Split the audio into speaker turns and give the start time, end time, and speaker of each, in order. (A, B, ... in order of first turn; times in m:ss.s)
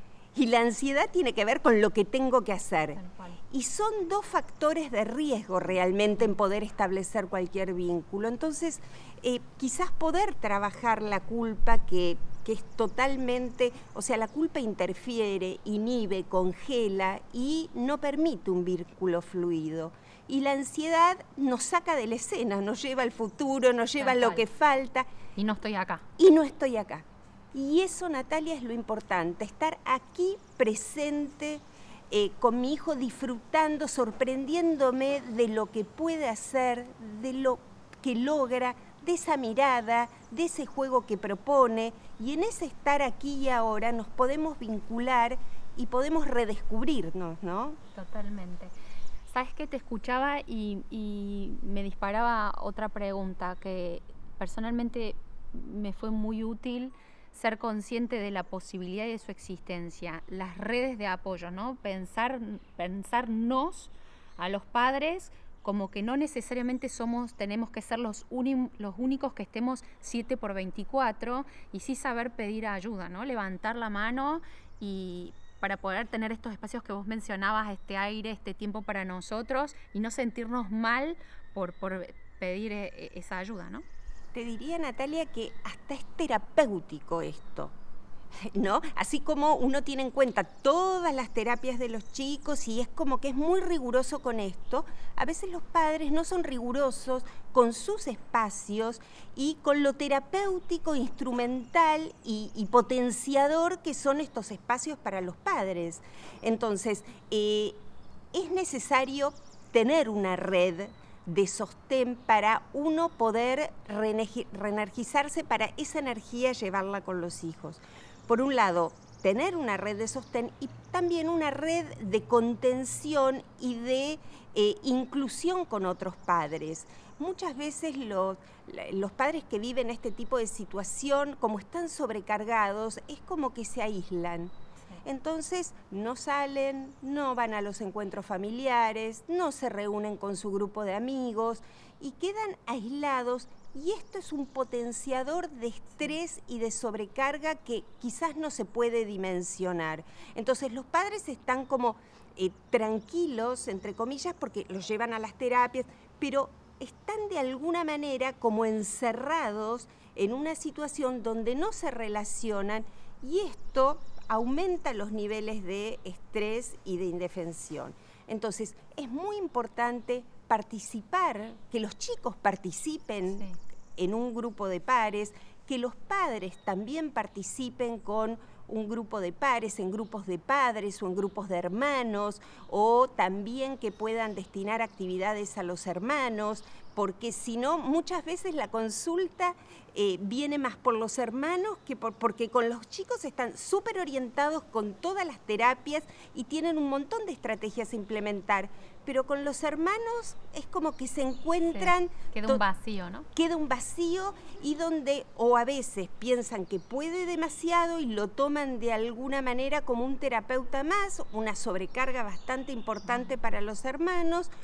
0:00.3-0:03.0 A
0:02.9-0:03.4 B
0:03.5-0:25.1 A
0:24.0-0:24.5 B
0:25.4-0:26.0 B
0:26.2-0:47.8 A
0:47.9-0:48.7 B
0:49.3-1:23.8 B
1:24.3-1:27.7 A
1:28.4-1:47.8 A
1:48.3-2:14.5 A
2:15.0-3:22.6 A
3:21.7-3:23.3 B
3:23.3-3:34.5 A